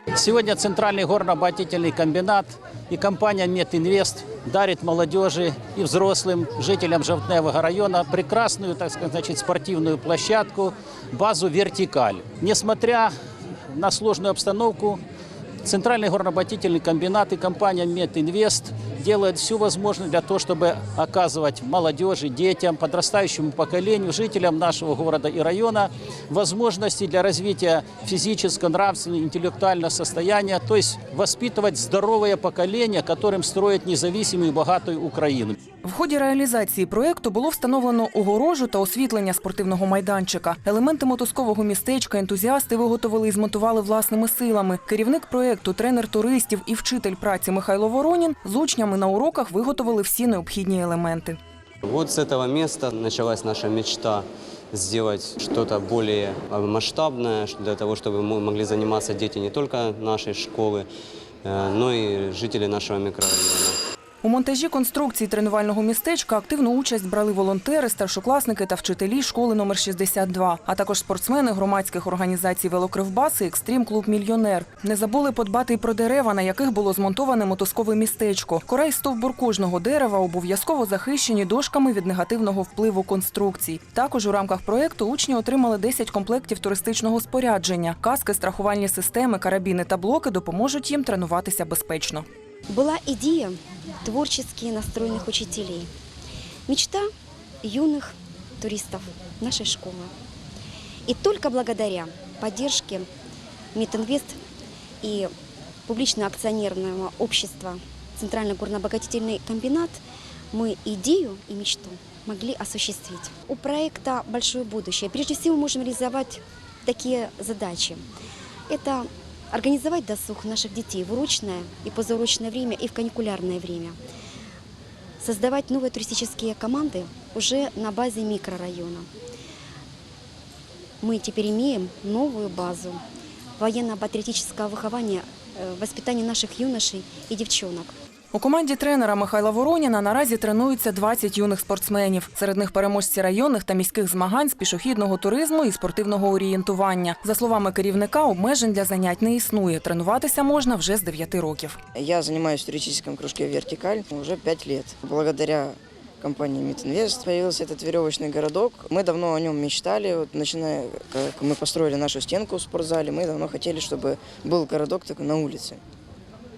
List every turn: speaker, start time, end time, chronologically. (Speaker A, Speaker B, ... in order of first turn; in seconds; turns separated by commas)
Speaker A: 0.1-13.1, Speaker A: 13.7-15.0, Speaker A: 15.6-35.5, Speaker B: 35.8-51.4, Speaker C: 51.8-60.9, Speaker C: 61.4-63.8, Speaker B: 64.2-92.2, Speaker D: 92.7-95.9, Speaker D: 96.7-97.0, Speaker D: 97.6-100.1, Speaker D: 101.1-103.1, Speaker D: 103.7-104.4, Speaker D: 105.0-105.3, Speaker D: 105.9-110.0, Speaker D: 110.5-118.0, Speaker D: 118.7-124.0, Speaker D: 125.2-129.1, Speaker D: 131.0-133.0, Speaker D: 133.6-137.9, Speaker B: 138.3-151.8, Speaker E: 151.9-165.8